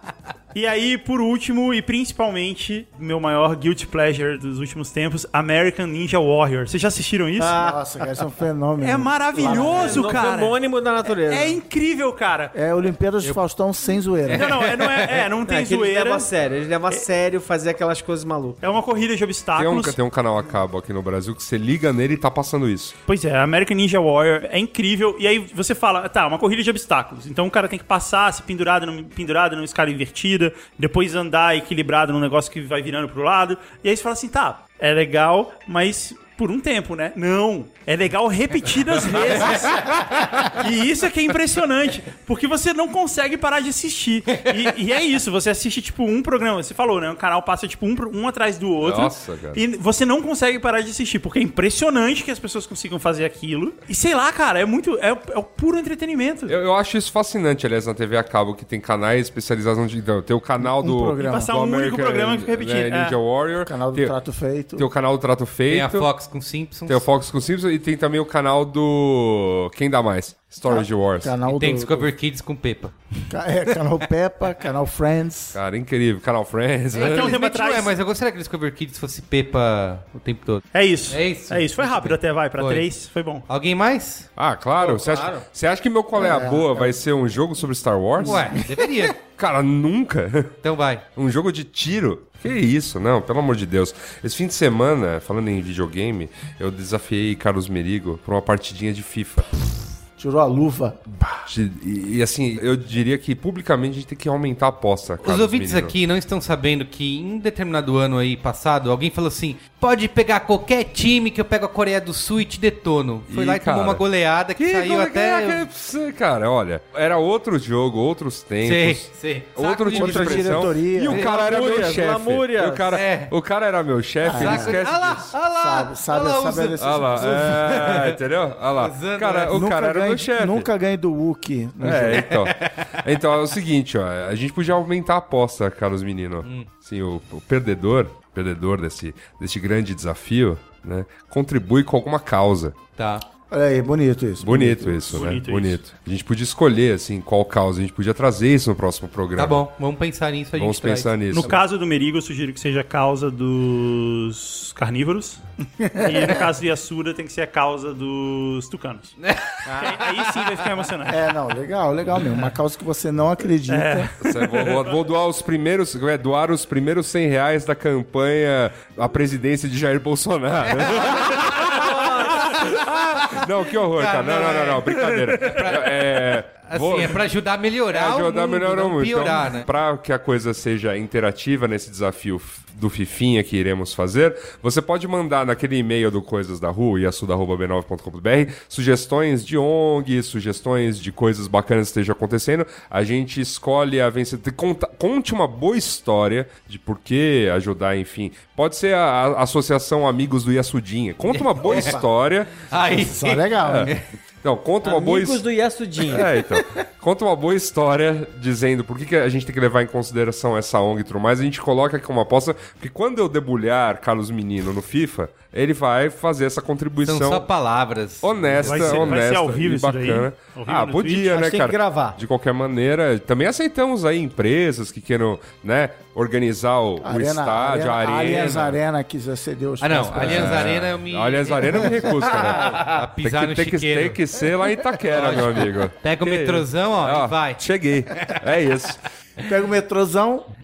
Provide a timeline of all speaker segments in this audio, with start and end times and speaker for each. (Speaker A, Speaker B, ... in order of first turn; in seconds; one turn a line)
Speaker A: 0.5-7.6
Speaker B: 7.4-7.8
Speaker C: 7.6-10.2
Speaker A: 8.8-12.6
Speaker B: 9.3-11.6
Speaker C: 12.5-14.5
Speaker D: 14.2-15.2
Speaker A: 14.3-16.3
Speaker B: 15.5-18.6
Speaker A: 18.6-19.9
Speaker E: 19.6-22.9
Speaker A: 23.1-56.5
Speaker E: 48.8-49.6
Speaker E: 56.5-64.1
Speaker C: 60.6-61.5
Speaker A: 61.2-63.2
Speaker C: 63.6-64.9
Speaker E: 64.8-66.1
Speaker D: 65.7-67.1
Speaker E: 66.9-71.3
Speaker C: 70.7-72.1
Speaker D: 71.5-73.0
Speaker C: 73.3-75.6
Speaker E: 75.5-77.4
Speaker D: 76.9-82.9
Speaker A: 77.0-77.9
Speaker A: 80.7-83.5
Speaker D: 83.5-84.3
Speaker E: 84.4-88.6
Speaker B: 84.8-85.5
Speaker C: 86.1-87.0
Speaker D: 88.2-89.2
Speaker E: 89.2-90.5
Speaker D: 90.6-91.0
Speaker E: 91.2-99.5
Speaker C: 100.2-101.0
Speaker E: 101.3-106.0
Speaker D: 105.2-115.6
Speaker E: 113.3-125.3
Speaker D: 118.6-121.9
Speaker C: 119.9-121.2
Speaker B: 120.0-123.0
Speaker D: 122.9-123.3
Speaker C: 124.2-124.8
Speaker D: 124.3-128.2
Speaker C: 125.5-127.6
Speaker E: 126.8-130.7
Speaker D: 128.8-129.6
Speaker C: 129.5-132.3
Speaker E: 131.8-142.8
Speaker D: 131.8-132.9
Speaker D: 136.4-136.7
Speaker D: 143.0-143.2
Speaker C: 143.5-145.3
Speaker E: 144.4-149.6
Speaker A: 145.1-145.9
Speaker D: 149.3-151.5
Speaker E: 150.5-151.6
Speaker A: 151.3-155.4
Speaker C: 155.8-156.5
Speaker A: 156.0-161.2
Speaker D: 159.2-160.0
Speaker C: 161.1-164.1
Speaker A: 163.7-164.8
Speaker E: 164.2-177.2
Speaker D: 170.6-179.7
Speaker B: 171.8-172.5
Speaker E: 177.9-202.7
Speaker D: 201.3-202.0
Speaker C: 201.7-202.0
Speaker D: 202.6-204.1
Speaker C: 202.9-203.9
Speaker E: 203.6-205.4
Speaker B: 204.8-206.3
Speaker E: 206.0-217.5
Speaker D: 217.1-219.2
Speaker E: 218.2-228.8
Speaker A: 218.6-221.3
Speaker B: 221.3-222.2
Speaker C: 227.0-230.7
Speaker D: 229.8-234.2
Speaker E: 230.1-239.0
Speaker D: 235.0-237.6
Speaker C: 239.4-240.5